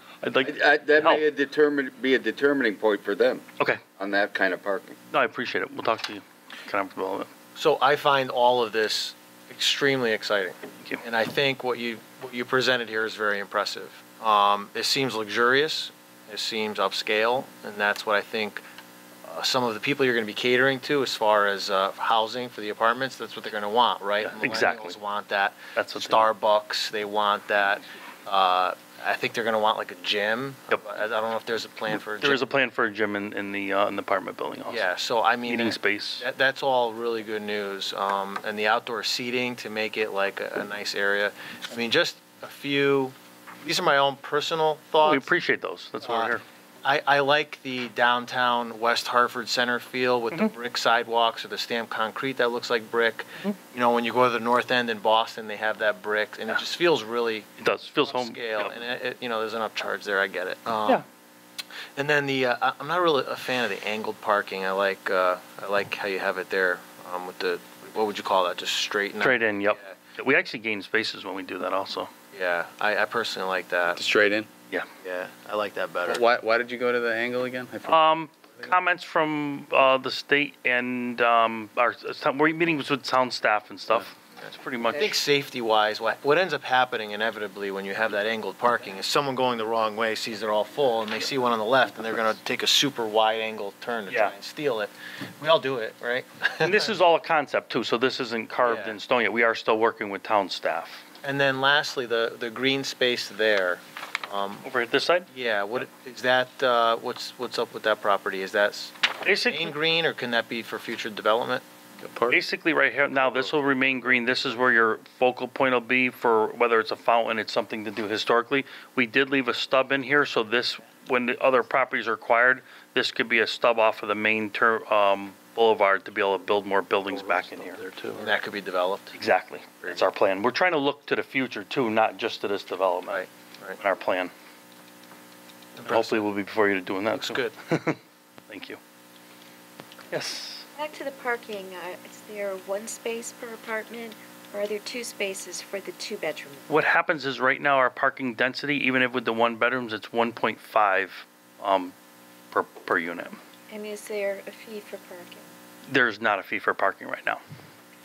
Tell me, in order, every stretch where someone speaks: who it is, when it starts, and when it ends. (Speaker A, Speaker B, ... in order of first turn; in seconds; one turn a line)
Speaker A: 0.2-1.2
Speaker B: 0.4-3.4
Speaker B: 4.0-5.0
Speaker A: 5.1-7.3
Speaker C: 7.5-18.6
Speaker C: 19.2-32.4
Speaker A: 24.2-25.0
Speaker A: 25.8-26.3
Speaker A: 32.1-34.9
Speaker C: 34.7-45.3
Speaker A: 35.5-36.2
Speaker A: 45.0-46.4
Speaker C: 46.0-57.5
Speaker A: 57.6-58.8
Speaker C: 58.0-61.0
Speaker C: 62.0-69.9
Speaker A: 69.2-72.1
Speaker C: 72.3-74.0
Speaker D: 73.9-74.5
Speaker C: 75.0-76.2
Speaker D: 76.0-78.0
Speaker A: 77.9-85.1
Speaker C: 84.9-96.9
Speaker A: 94.1-94.3
Speaker A: 96.6-101.0
Speaker C: 98.6-99.0
Speaker C: 101.2-104.7
Speaker A: 104.6-105.3
Speaker C: 105.3-111.6
Speaker A: 109.2-109.7
Speaker D: 112.0-112.4
Speaker A: 112.3-127.8
Speaker D: 127.1-128.3
Speaker C: 128.2-129.2
Speaker A: 129.1-133.2
Speaker C: 133.1-133.8
Speaker A: 133.8-134.3
Speaker C: 135.8-136.2
Speaker A: 135.9-138.8
Speaker C: 137.1-137.5
Speaker A: 140.1-140.7
Speaker E: 140.8-146.8
Speaker A: 146.7-151.9
Speaker A: 152.5-153.4
Speaker E: 153.7-155.5
Speaker A: 155.9-157.4